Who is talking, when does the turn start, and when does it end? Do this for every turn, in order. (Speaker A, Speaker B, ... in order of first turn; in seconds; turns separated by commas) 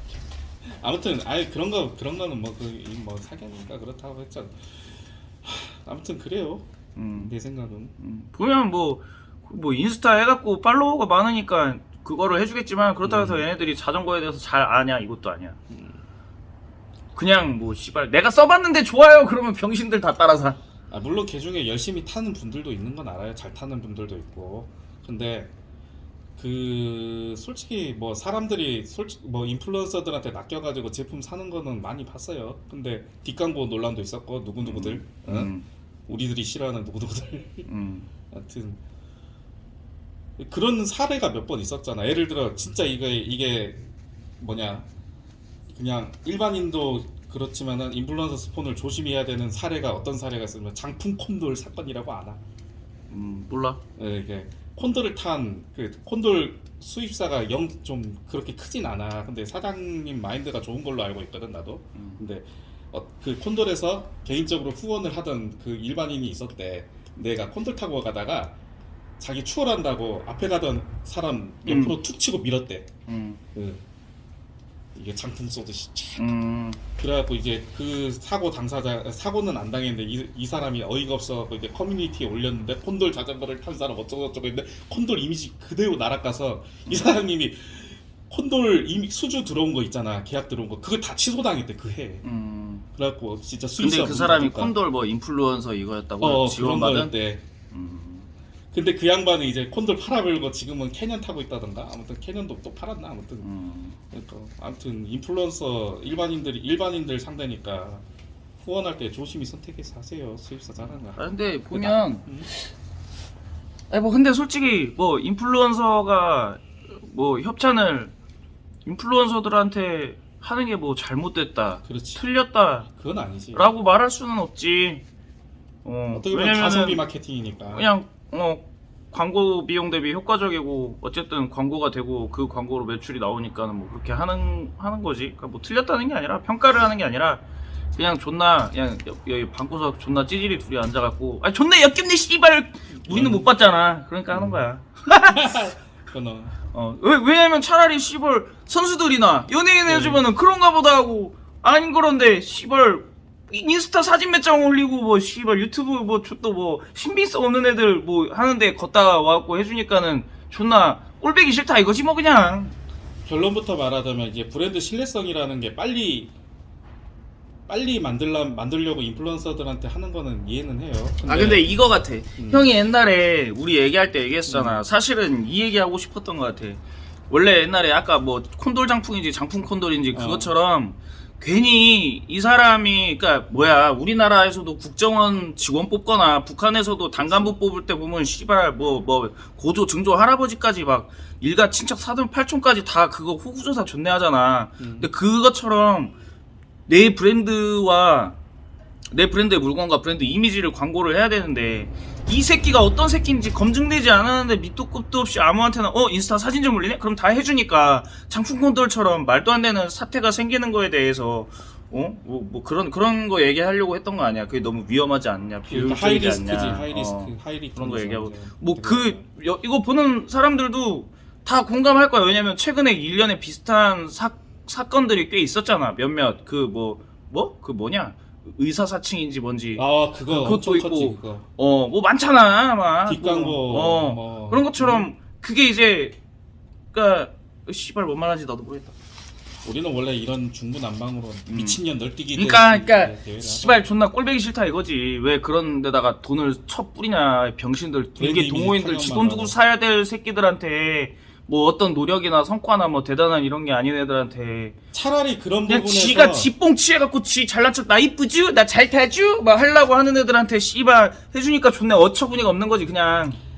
Speaker A: 0.7-7.9, Speaker B: 7.0-7.3, Speaker B: 8.0-15.6, Speaker A: 13.0-13.4, Speaker A: 15.7-16.0, Speaker B: 17.1-20.6, Speaker A: 20.9-25.5, Speaker A: 26.4-35.5, Speaker B: 34.6-35.7, Speaker A: 36.1-37.7, Speaker B: 37.6-38.1, Speaker A: 38.3-38.8, Speaker A: 40.4-43.9, Speaker A: 44.4-44.9, Speaker A: 45.7-52.4, Speaker B: 53.1-53.8, Speaker A: 54.0-68.5, Speaker A: 69.2-72.9, Speaker B: 71.7-72.0, Speaker B: 73.1-73.4, Speaker A: 73.5-73.8, Speaker A: 74.9-76.3, Speaker B: 76.2-76.8, Speaker A: 77.0-92.2, Speaker B: 86.9-87.2, Speaker B: 92.2-92.8, Speaker A: 93.0-94.7, Speaker B: 93.8-97.1, Speaker A: 96.2-97.4, Speaker B: 97.7-98.3, Speaker A: 98.7-103.5, Speaker B: 103.4-104.0, Speaker A: 104.1-108.0, Speaker A: 108.6-112.5, Speaker B: 111.1-112.3, Speaker B: 113.9-118.1, Speaker B: 118.8-122.9, Speaker A: 121.8-122.2, Speaker A: 122.9-123.7, Speaker B: 123.5-125.0, Speaker B: 125.8-127.0, Speaker A: 126.1-127.9, Speaker B: 127.7-137.4, Speaker B: 137.9-145.6, Speaker A: 143.1-143.5, Speaker A: 144.3-144.7, Speaker A: 145.2-146.6, Speaker B: 146.7-162.8, Speaker A: 149.8-150.2, Speaker A: 163.2-166.3, Speaker A: 167.7-171.8, Speaker B: 171.2-196.1, Speaker A: 172.4-172.7, Speaker A: 174.5-174.8, Speaker A: 180.1-180.5, Speaker A: 187.2-187.6, Speaker A: 194.8-195.1, Speaker B: 196.9-198.4, Speaker B: 199.1-236.2, Speaker A: 215.6-219.2, Speaker A: 229.8-231.5, Speaker A: 233.1-235.1, Speaker B: 236.9-238.9, Speaker A: 239.6-243.9, Speaker B: 241.5-241.8, Speaker B: 242.3-254.7, Speaker A: 248.2-249.6, Speaker A: 254.9-256.5, Speaker B: 255.7-263.4